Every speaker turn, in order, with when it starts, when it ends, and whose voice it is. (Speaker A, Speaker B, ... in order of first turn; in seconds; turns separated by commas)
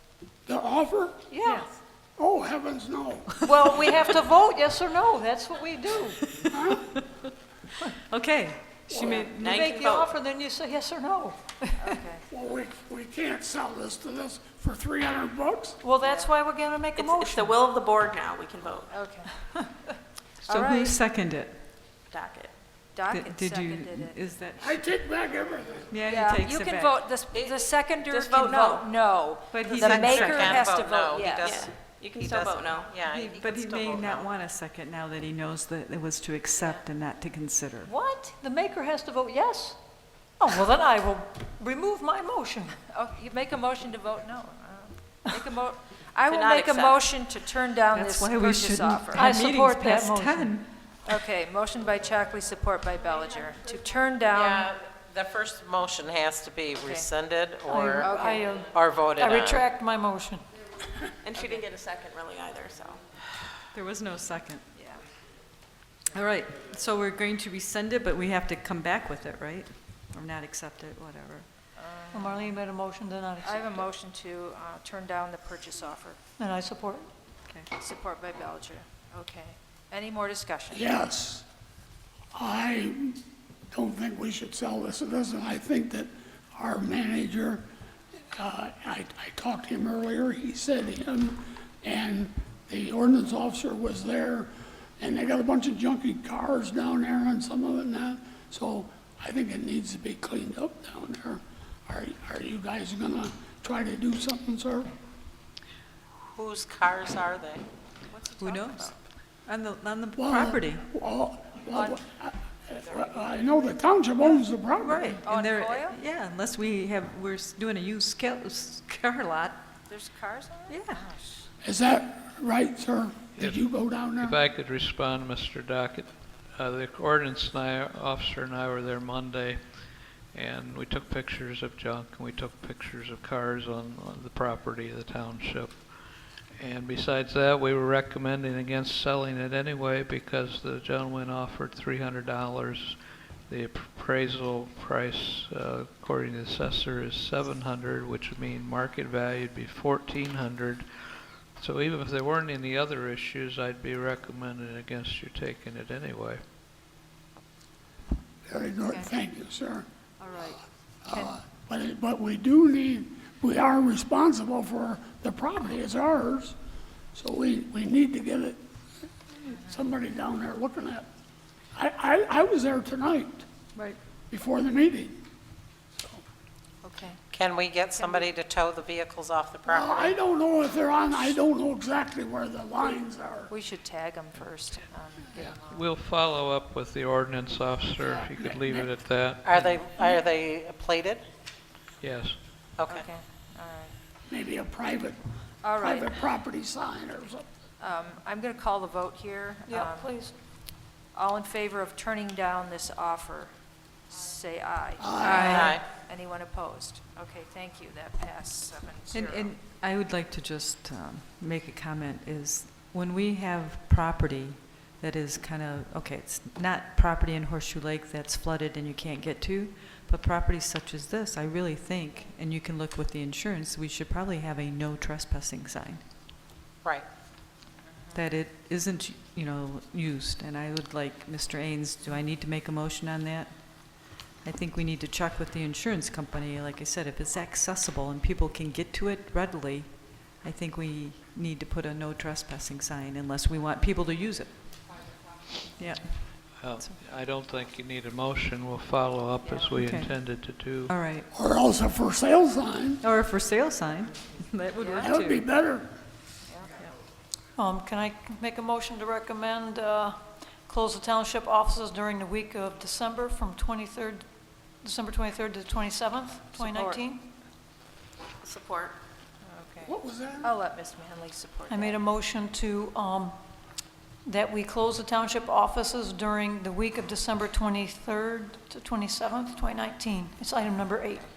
Speaker A: 0.5-1.2, Speaker B: 1.3-1.7, Speaker A: 2.2-4.0, Speaker B: 3.5-6.2, Speaker A: 6.5-6.9, Speaker C: 8.1-9.7, Speaker A: 8.9-9.4, Speaker D: 9.0-10.2, Speaker B: 9.4-11.8, Speaker E: 11.8-12.2, Speaker A: 12.3-15.8, Speaker B: 15.8-17.6, Speaker E: 16.0-16.3, Speaker D: 17.0-18.9, Speaker E: 18.9-19.3, Speaker E: 20.4-20.9, Speaker C: 20.4-21.6, Speaker D: 22.1-22.5, Speaker E: 22.9-24.2, Speaker C: 23.1-24.8, Speaker A: 24.6-25.9, Speaker C: 25.9-27.0, Speaker E: 26.1-31.7, Speaker F: 27.3-27.8, Speaker D: 28.0-29.0, Speaker B: 29.5-30.6, Speaker D: 29.6-30.4, Speaker F: 29.8-34.3, Speaker C: 30.1-30.5, Speaker D: 31.4-33.0, Speaker C: 33.1-37.9, Speaker B: 37.9-39.8, Speaker B: 40.4-42.8, Speaker E: 42.9-49.3, Speaker D: 46.2-47.1, Speaker C: 47.9-50.7, Speaker B: 49.1-50.6, Speaker E: 51.1-54.7, Speaker F: 54.3-59.6, Speaker E: 56.8-57.1, Speaker B: 57.7-60.5, Speaker E: 58.0-58.6, Speaker D: 61.2-63.0, Speaker E: 61.4-61.6, Speaker C: 63.7-64.7, Speaker E: 64.8-65.0, Speaker C: 66.1-71.5, Speaker E: 71.8-72.5, Speaker B: 72.1-73.8, Speaker E: 73.4-76.2, Speaker B: 76.4-77.1, Speaker E: 77.8-80.9, Speaker A: 80.7-81.5, Speaker A: 82.3-83.2, Speaker A: 83.7-87.7, Speaker A: 88.4-104.9, Speaker F: 106.3-107.6, Speaker E: 108.1-109.0, Speaker C: 108.4-110.8, Speaker A: 110.2-115.2, Speaker C: 114.8-119.6, Speaker E: 115.2-116.0, Speaker E: 119.9-121.5, Speaker C: 120.7-121.1, Speaker A: 121.6-124.4, Speaker G: 123.4-156.4, Speaker A: 158.5-159.9, Speaker E: 160.2-161.4, Speaker A: 161.1-166.6, Speaker A: 167.1-168.6, Speaker A: 169.3-171.1, Speaker A: 171.7-173.5, Speaker A: 174.3-175.2, Speaker E: 176.8-177.2, Speaker F: 177.3-180.2, Speaker E: 177.9-178.3, Speaker A: 179.7-183.5, Speaker E: 183.5-185.9, Speaker G: 185.7-189.8, Speaker A: 188.1-188.9, Speaker F: 189.4-191.2, Speaker G: 192.0-192.4, Speaker F: 192.8-193.1, Speaker E: 192.9-193.9, Speaker A: 194.3-195.2, Speaker E: 195.6-196.1, Speaker A: 195.8-197.4, Speaker E: 197.8-200.1, Speaker B: 199.7-200.3, Speaker E: 201.1-203.5, Speaker E: 204.1-209.5, Speaker A: 205.0-205.7, Speaker C: 205.2-205.8, Speaker F: 205.5-205.9, Speaker C: 209.1-226.0, Speaker C: 228.1-245.2, Speaker C: 245.8-247.0, Speaker G: 246.6-251.0, Speaker E: 249.4-249.8, Speaker C: 249.8-251.3, Speaker A: 251.3-253.0, Speaker C: 253.0-255.5, Speaker E: 254.8-255.1, Speaker A: 255.0-255.9, Speaker E: 256.5-256.7, Speaker B: 257.6-264.2, Speaker B: 264.8-267.2, Speaker E: 266.6-267.0, Speaker D: 268.4-269.0, Speaker E: 269.4-272.0, Speaker A: 269.8-270.5, Speaker B: 271.7-273.4, Speaker B: 274.2-281.3